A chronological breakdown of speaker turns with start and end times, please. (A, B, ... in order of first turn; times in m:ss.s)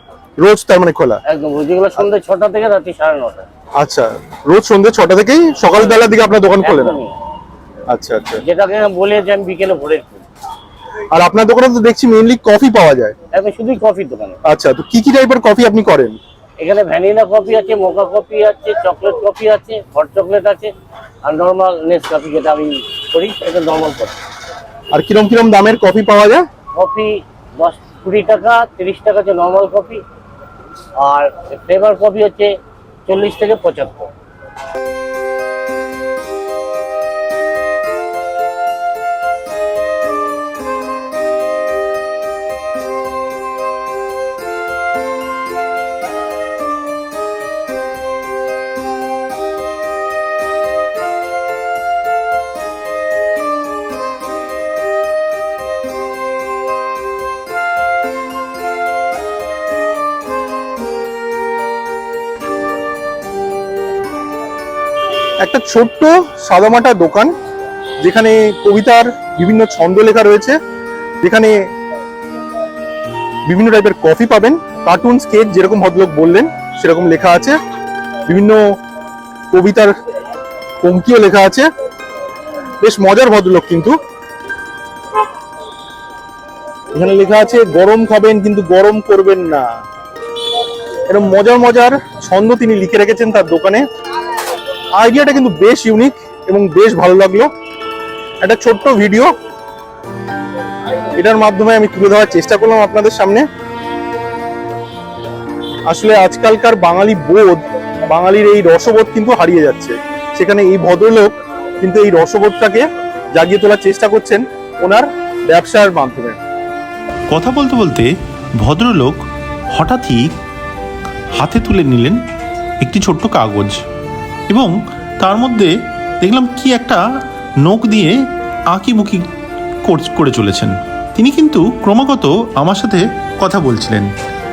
0:00.4-0:01.2 A
0:01.3-0:03.4 B
0:03.8-0:07.0 A
0:05.7-0:07.2 B
0:07.9-0:08.4 A
0:08.4-0:10.2 B
0:11.1-0:13.1 A
0:13.3-0:14.4 B
0:14.4-0:16.2 A
0:16.6-0:20.7 B
0:21.2-0:24.2 B
0:24.9-0:26.4 A
0:26.7-0:30.0 B
0:31.0-0:32.6 B
0:33.1-0:34.1 B
1:05.4-1:07.3 A
1:08.0-1:10.6 A
1:11.2-1:11.6 A
1:13.5-1:17.6 A
1:18.3-1:18.6 A
1:19.5-1:19.9 A
1:20.8-1:21.7 A
1:22.8-1:23.9 A
1:26.9-1:29.7 A
1:31.1-1:33.8 A
1:35.0-1:37.5 A
1:38.4-1:39.3 A
1:41.1-1:43.4 A
1:45.9-1:56.4 A
1:57.3-1:58.1 C
1:58.6-1:59.2 C
1:59.7-2:00.3 C
2:01.4-2:02.2 C
2:02.8-2:03.8 C
2:04.5-2:07.0 C
2:07.6-2:08.2 C
2:08.7-2:09.2 C
2:09.8-2:14.1 C